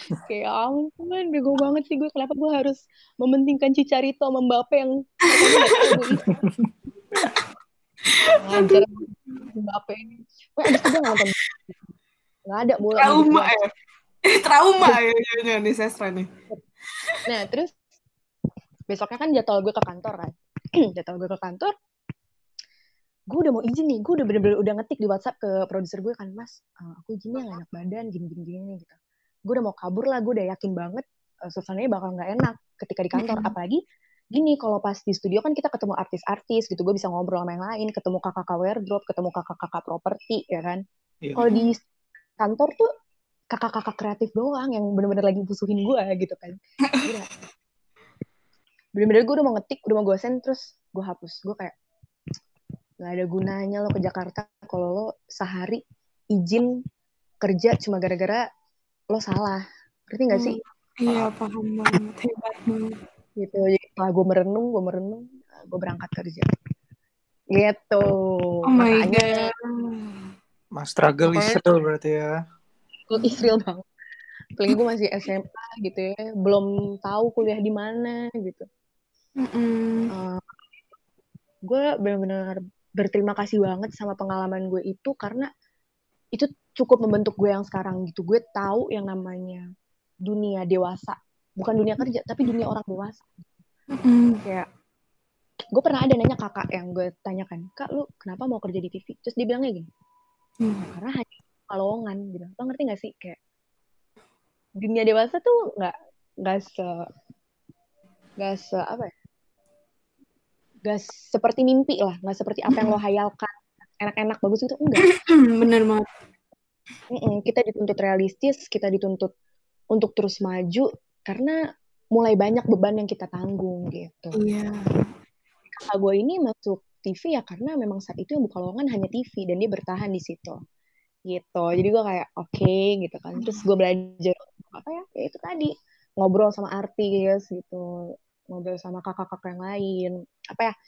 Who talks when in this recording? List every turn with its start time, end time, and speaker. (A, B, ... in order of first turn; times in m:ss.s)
0:00.2-0:06.4 A
0:05.4-0:06.2 B
0:06.3-0:06.7 C
0:08.3-0:11.4 A
0:08.6-0:08.8 B
0:10.7-0:11.2 B
0:12.5-0:13.5 A
0:13.0-0:13.6 B
0:14.3-0:16.3 B
0:17.2-0:17.7 A
0:18.9-0:21.7 A
0:23.3-0:28.9 A
0:29.5-0:33.8 A
0:33.2-0:33.5 B
0:34.3-0:40.8 A
0:41.4-0:41.8 A
0:41.4-0:41.7 B
0:42.4-0:42.9 A
0:43.5-0:47.3 A
0:49.0-0:51.7 A
0:53.0-0:55.8 A
0:56.3-0:56.7 A
0:57.4-0:58.4 A
0:59.1-1:00.6 A
1:00.3-1:03.0 B
1:03.4-1:06.5 A
1:07.5-1:09.5 A
1:08.7-1:10.2 B
1:10.8-1:12.3 C
1:11.3-1:11.6 A
1:13.1-1:13.8 A
1:14.6-1:18.6 A
1:19.4-1:20.1 B
1:20.1-1:20.4 A
1:21.7-1:25.5 A
1:26.3-1:29.6 A
1:30.2-1:33.5 A
1:33.9-1:34.4 B
1:35.7-1:39.8 A
1:40.6-1:40.9 B
1:40.9-1:43.4 A
1:44.8-1:47.0 A
1:48.4-1:49.1 A
1:50.8-1:55.1 A
1:52.7-1:53.0 B
1:55.0-1:56.0 B
1:57.1-1:59.3 A
1:59.9-2:01.6 A
2:02.1-2:04.4 A
2:04.4-2:05.0 B
2:05.8-2:10.6 A
2:11.3-2:17.8 A
2:13.4-2:13.6 B
2:18.5-2:20.7 A